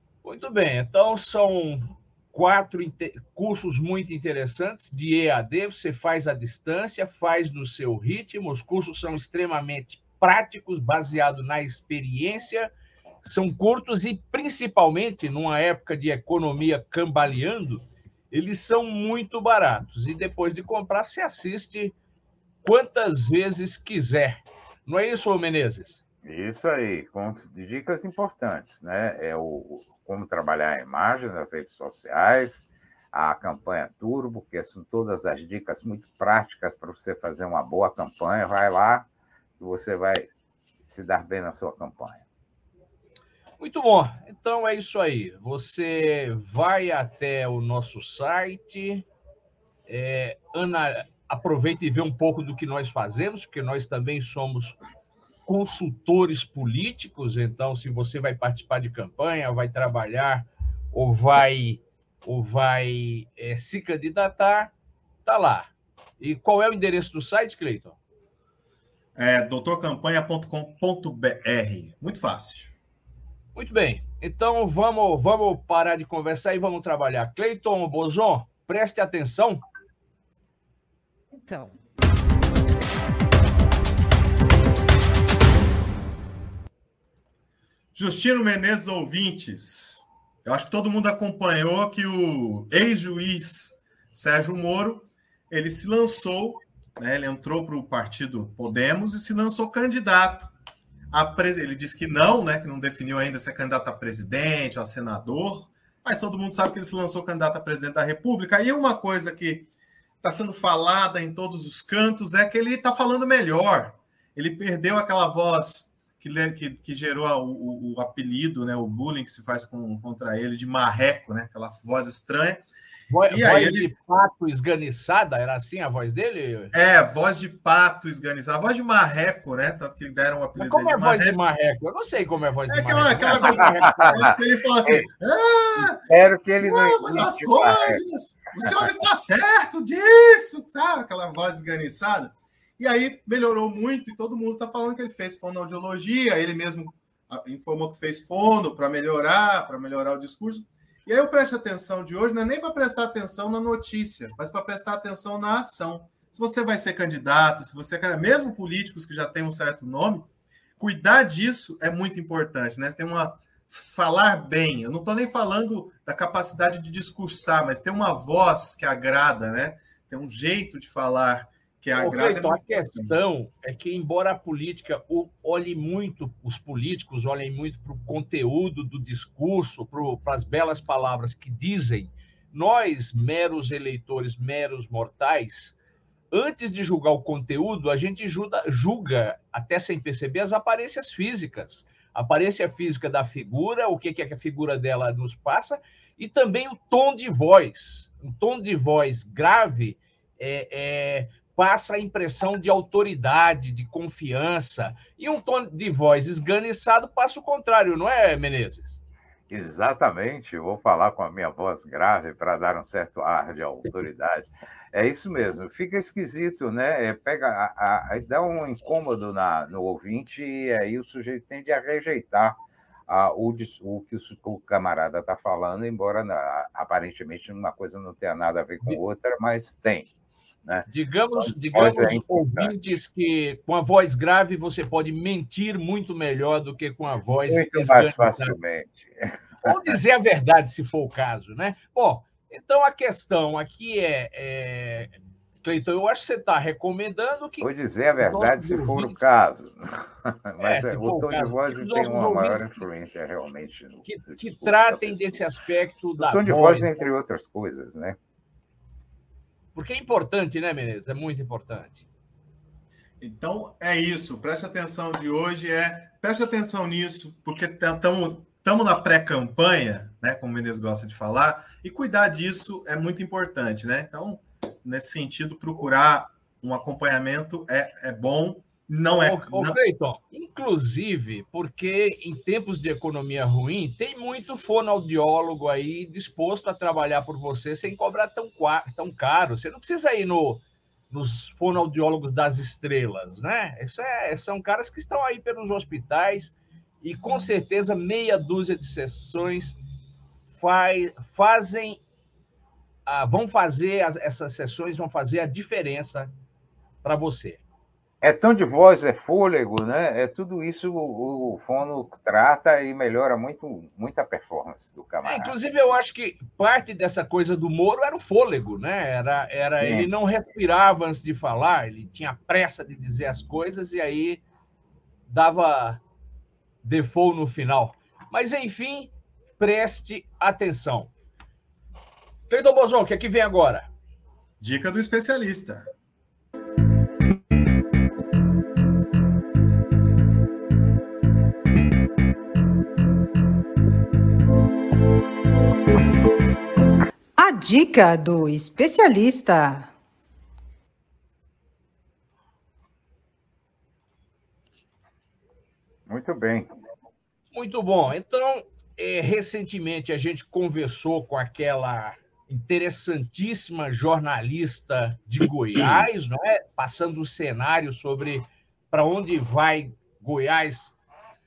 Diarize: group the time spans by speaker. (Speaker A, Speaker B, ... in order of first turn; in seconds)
Speaker A: 0.2-12.7, 13.2-21.9, 22.6-26.0, 43.6-49.0, 49.9-54.8, 55.5-64.7, 65.2-68.0, 73.5-79.6, 123.1-126.7, 130.6-134.4, 172.0-185.8, 186.3-209.0, 230.9-238.6, 239.6-249.3, 250.6-252.8, 254.1-257.0, 259.7-262.1, 279.1-299.8, 300.5-302.0, 303.1-306.3, 307.0-307.6, 315.2-324.4, 325.3-326.0, 326.8-331.1, 332.5-333.9, 357.5-371.0
Speaker B: 26.2-39.1, 39.6-40.3, 40.9-42.2, 133.5-135.1, 135.8-138.0, 138.6-138.9, 209.5-230.1, 231.4-232.7, 237.5-240.0, 247.6-255.4, 256.2-258.2, 308.2-315.6, 319.8-320.1, 356.1-356.7
Speaker C: 69.1-72.7, 87.9-100.5, 101.1-109.7, 110.2-122.6, 123.3-123.9, 126.7-131.4, 132.7-136.1, 136.6-173.1, 263.2-279.8, 334.6-335.9
Speaker D: 347.4-349.9